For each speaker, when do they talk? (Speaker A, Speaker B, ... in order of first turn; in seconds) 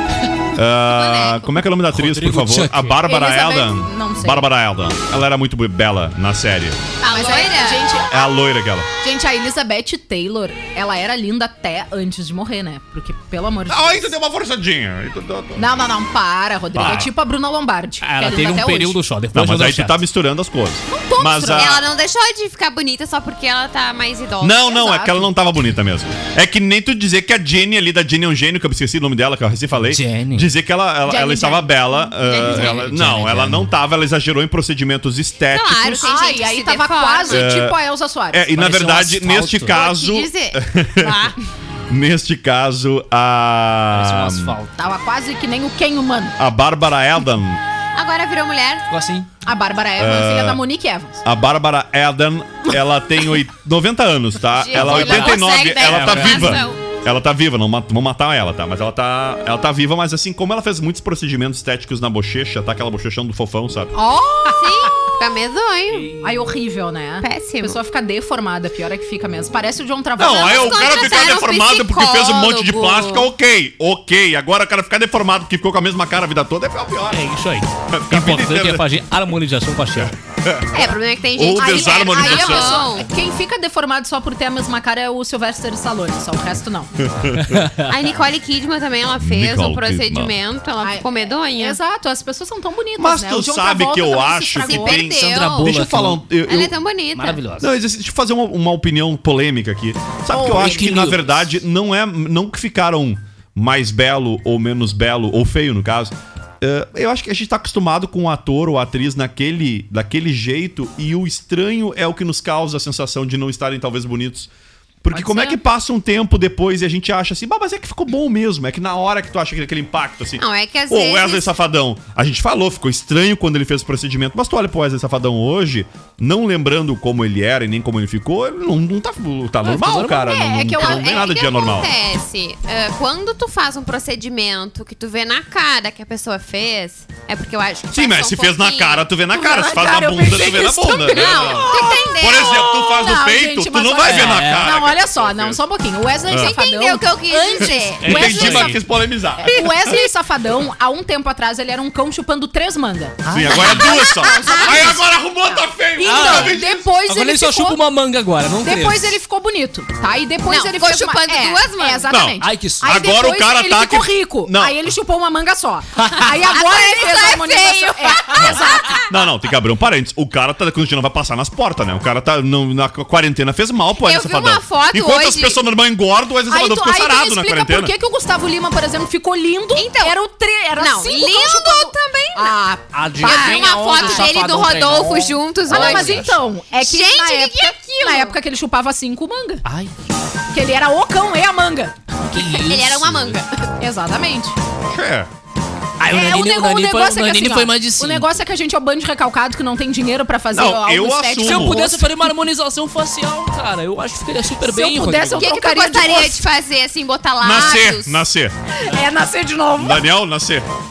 Speaker A: 0.5-6.8, 8.1-8.9, 13.7-15.7, 16.7-17.1, 19.3-21.8, 24.4-36.1, 37.3-37.8, 38.3-41.3, 41.9-44.5, 46.4-47.6, 50.0-50.6, 51.2-63.9, 70.2-77.3, 77.9-78.8, 80.0-82.9, 87.0-87.7, 89.2-90.3, 93.0-96.8, 97.6-114.5, 115.0-131.9, 137.9-145.6, 146.3-146.6, 148.0-150.0, 153.3-156.9, 162.1-164.8, 168.4-177.9, 194.9-195.3, 200.5-201.9, 207.4-208.5, 209.8-210.7
Speaker B: 0.8-1.5, 7.0-7.8, 21.5-24.9, 32.2-32.9, 35.5-37.5, 39.7-41.4, 47.9-48.9, 54.6-56.8, 63.9-66.1, 67.2-67.8, 70.2-73.3, 80.7-83.0, 87.8-91.8, 94.6-95.7, 96.5-97.4, 120.4-121.5, 130.8-139.1, 141.1-142.6, 146.3-148.2, 153.6-154.9, 160.5-162.1, 166.4-169.1, 174.0-175.6, 179.7-180.1, 180.8-182.6, 183.2-188.3, 192.4-193.5, 205.4-208.2
Speaker C: 1.9-3.0, 18.0-19.9, 29.9-30.5, 32.7-33.6, 38.6-39.8, 43.9-44.7, 48.9-49.2, 54.8-56.6, 66.0-66.3, 77.1-80.1, 95.3-96.2, 97.2-97.7, 100.4-101.2, 144.1-144.7, 148.0-148.8, 153.2-153.7, 156.1-156.5, 157.1-159.1, 162.4-163.0, 182.9-186.2, 189.7-189.9, 192.3-193.1, 196.0-198.3, 201.4-205.4
Speaker D: 3.0-4.5, 7.1-8.2, 9.0-14.1, 15.6-19.0, 20.9-21.8, 24.7-25.3, 31.0-32.1, 36.0-38.5, 44.8-46.4, 49.4-51.2, 64.4-65.1, 66.2-71.0, 81.5-86.9, 90.8-95.1, 100.3-101.0, 115.1-115.6, 129.7-131.2, 139.3-148.8, 149.4-157.8, 158.6-169.0, 176.5-184.3, 185.7-189.6, 190.5-191.9, 193.8-194.6, 196.1-202.3, 204.6-206.5, 208.8-210.1